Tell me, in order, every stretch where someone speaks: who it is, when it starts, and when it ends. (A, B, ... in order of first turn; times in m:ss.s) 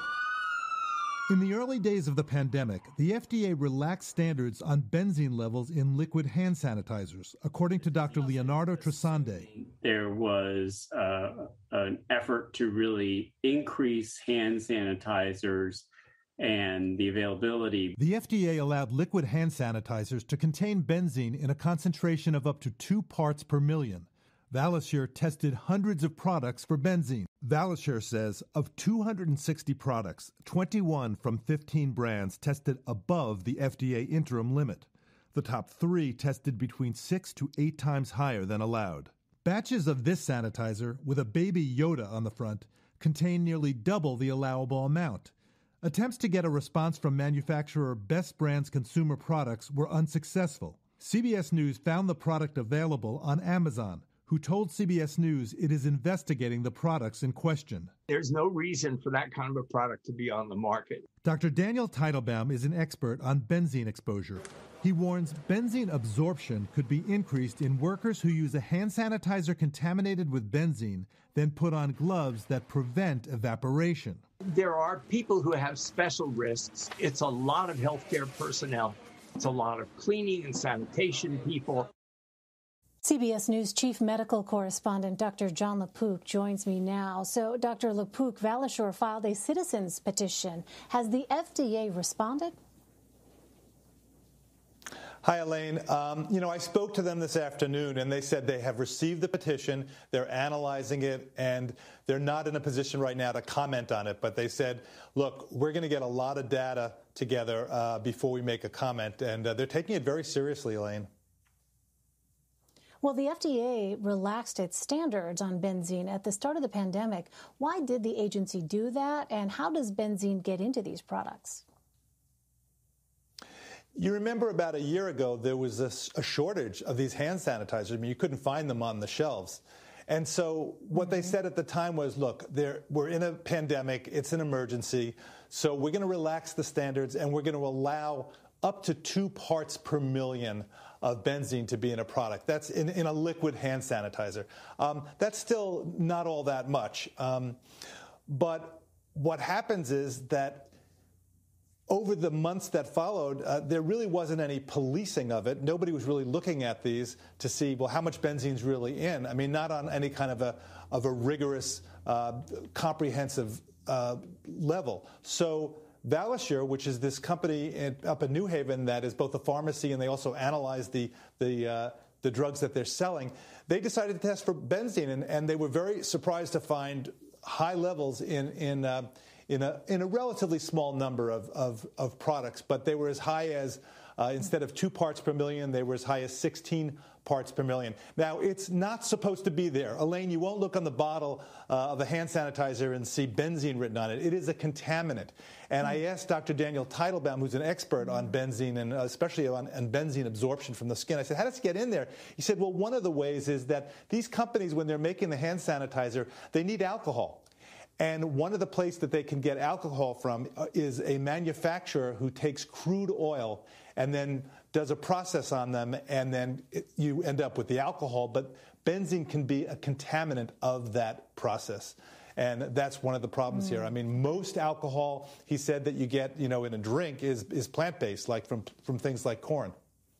0:01.3-0:09.5 A
0:07.8-0:10.2 B
0:10.7-0:17.9 B
0:18.0-0:57.9 A
0:58.1-1:01.0 C
1:01.2-1:14.2 A
1:14.5-1:21.8 C
1:23.0-1:32.5 D
1:35.2-1:51.1 A
1:53.0-2:01.6 D
2:04.0-2:27.6 A
2:28.3-2:30.7 A
2:31.9-3:27.4 A
3:28.0-3:49.7 A